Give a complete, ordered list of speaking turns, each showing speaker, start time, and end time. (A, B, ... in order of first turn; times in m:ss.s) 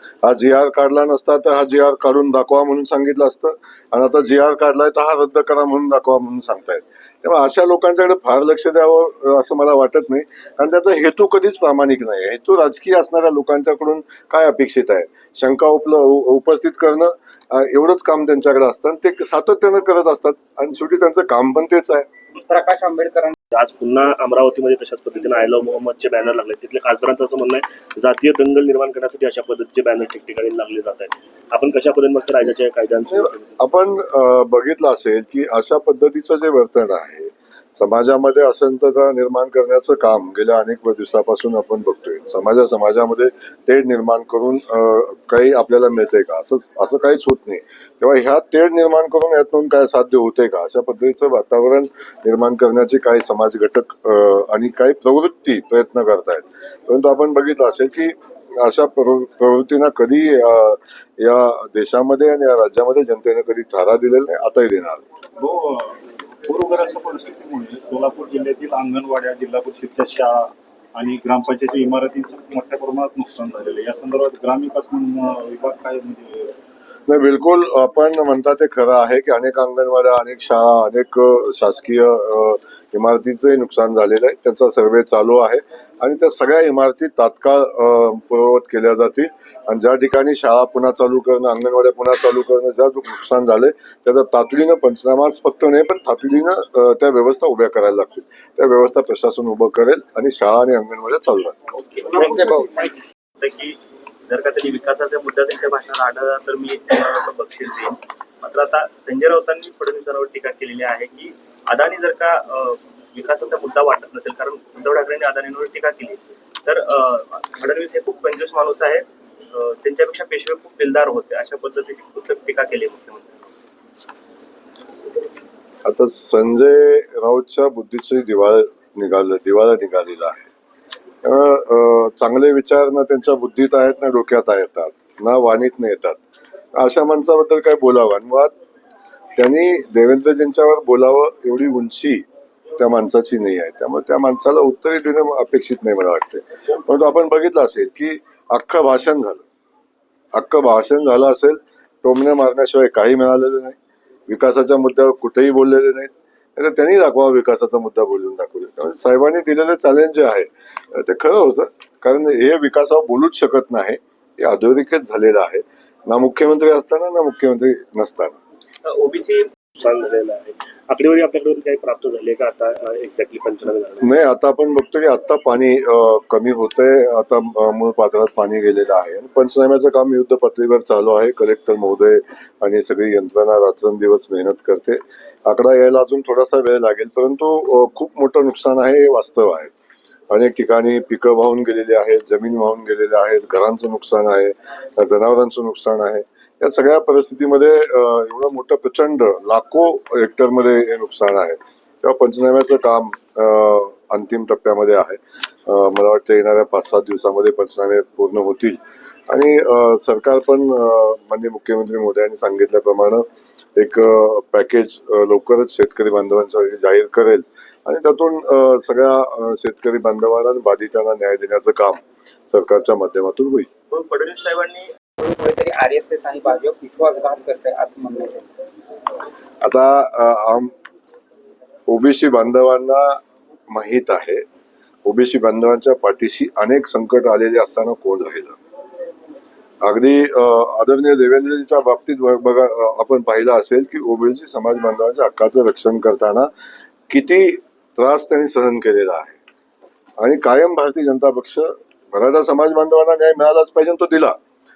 0:00.2-0:22.1 A
0:22.4-0:23.4 B
0:23.5-0:33.6 C
0:33.1-1:05.0 A
1:05.4-1:16.5 D
1:17.1-1:41.6 A
1:42.0-1:42.9 B
1:43.4-1:43.8 E
1:44.3-2:03.5 E
2:05.8-2:10.5 A
2:11.2-2:16.2 A
2:16.8-2:18.5 A
2:19.4-2:22.2 A
2:22.8-2:29.4 A
2:30.3-2:33.8 A
2:34.3-2:48.4 A
2:48.8-2:49.5 E
2:49.8-2:54.1 C
2:54.0-3:09.7 A
3:10.3-3:33.2 A
3:33.8-3:43.7 A
3:43.9-3:44.9 E
3:45.2-3:48.5 B
3:49.6-3:50.7 A
3:51.9-3:53.2 A
3:53.7-3:54.4 A
3:55.0-3:58.6 A
3:59.8-4:06.5 A
4:07.1-4:09.4 A
4:10.2-4:14.4 A